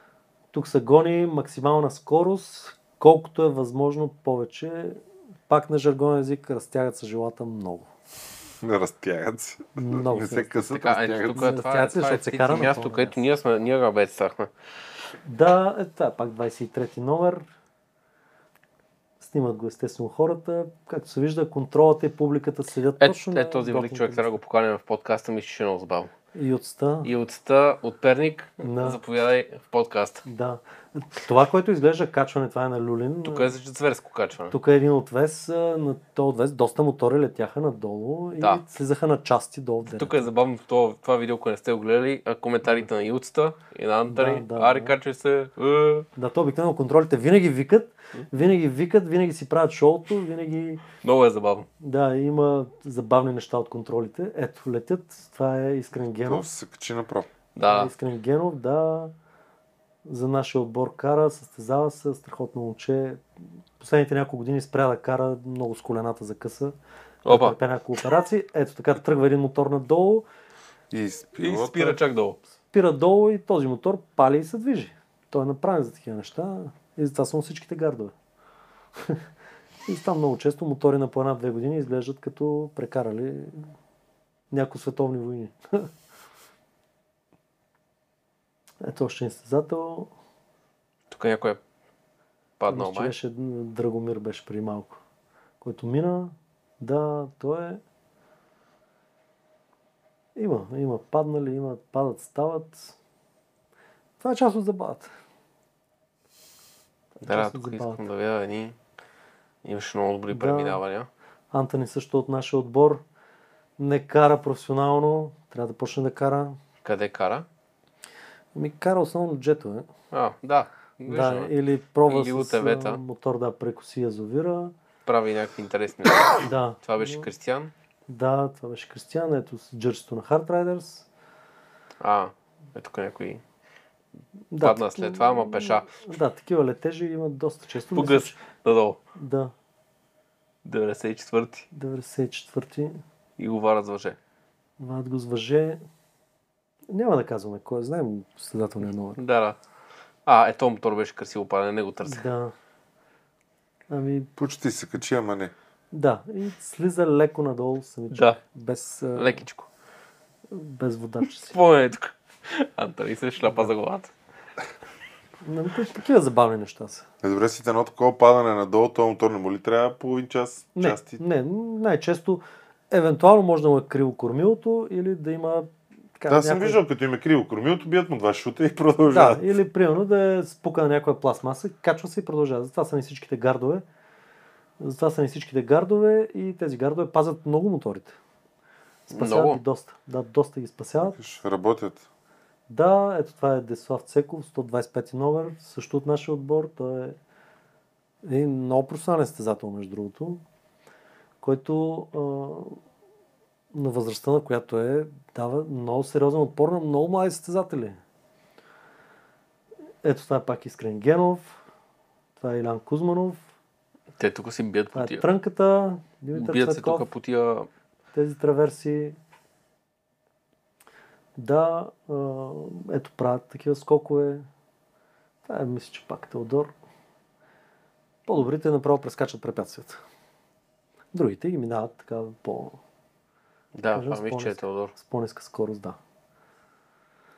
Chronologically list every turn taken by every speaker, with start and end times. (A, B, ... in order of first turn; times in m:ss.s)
0:00.5-0:07.9 A
0:08.6-0:11.6 B
0:09.8-0:10.5 A
0:10.7-0:14.5 C
0:11.3-0:13.2 A
0:15.2-0:17.4 A
0:19.2-0:24.3 A
0:23.0-0:26.1 C
0:26.3-0:27.1 A
0:27.0-0:30.2 C
0:28.6-0:29.0 A
0:30.2-0:33.5 A
0:33.2-0:34.5 C
0:34.5-0:40.2 A
0:39.8-0:46.1 C
0:44.1-0:44.9 A
0:46.2-0:50.8 A
0:51.0-0:51.7 C
0:51.8-0:56.4 A
0:56.2-0:57.3 B
0:57.6-0:57.9 C
0:57.7-0:59.1 A
1:00.0-1:03.2 A
1:03.8-1:06.7 A
1:07.2-1:07.6 C
1:07.3-1:10.2 A
1:10.9-1:12.0 B
1:11.4-1:12.4 C
1:12.7-1:18.1 A
1:19.0-1:19.2 A
1:19.8-1:23.6 A
1:24.5-1:25.9 A
1:28.8-1:30.1 A
1:31.1-1:31.6 C
1:32.6-1:33.1 C
1:32.7-1:35.0 A
1:35.6-1:37.8 A
1:40.3-1:42.9 A
1:44.2-1:45.1 A
1:47.2-1:48.0 A
1:47.2-1:48.8 C
1:49.6-1:51.1 C
1:50.3-1:50.8 A
1:51.5-1:53.0 A
1:53.8-1:56.6 A
1:56.8-1:57.4 C
1:58.5-1:59.9 A
2:00.1-2:01.5 C
2:01.1-2:04.7 A
2:02.1-2:03.0 C
2:05.0-2:07.7 C
2:06.4-2:07.2 A
2:08.1-2:11.1 A
2:12.0-2:13.4 C
2:14.5-2:18.4 A
2:14.6-2:15.9 C
2:17.9-2:19.0 C
2:19.2-2:19.5 A
2:20.6-2:21.6 C
2:21.7-2:23.0 A
2:23.4-2:24.2 C
2:24.8-2:25.8 A
2:26.9-2:29.2 A
2:29.2-2:29.6 C
2:30.2-2:32.2 C
2:32.0-2:32.5 A
2:33.9-2:34.3 A
2:34.4-2:35.5 B
2:35.9-2:39.4 A
2:38.1-2:38.4 C
2:39.2-2:39.7 C
2:40.5-2:41.6 A
2:41.2-2:44.1 C
2:45.4-2:47.0 A
2:47.2-2:51.2 B
2:50.8-2:56.8 A
2:56.3-2:59.5 B
2:59.1-3:03.8 A
3:04.8-3:08.2 A
3:09.1-3:11.2 A
3:09.1-3:09.6 C
3:11.1-3:12.0 B
3:12.7-3:17.2 A
3:18.2-3:20.4 A
3:21.4-3:22.8 A
3:23.7-3:28.0 A
3:30.0-3:31.6 A
3:32.4-3:33.4 A
3:34.2-3:35.2 C
3:34.9-3:37.0 A
3:36.3-3:37.7 C
3:38.1-3:39.2 A
3:41.4-3:44.5 A
3:45.4-3:46.7 A
3:48.2-3:50.0 A
3:51.1-3:52.8 A
3:53.7-3:54.9 C
3:53.9-3:56.0 A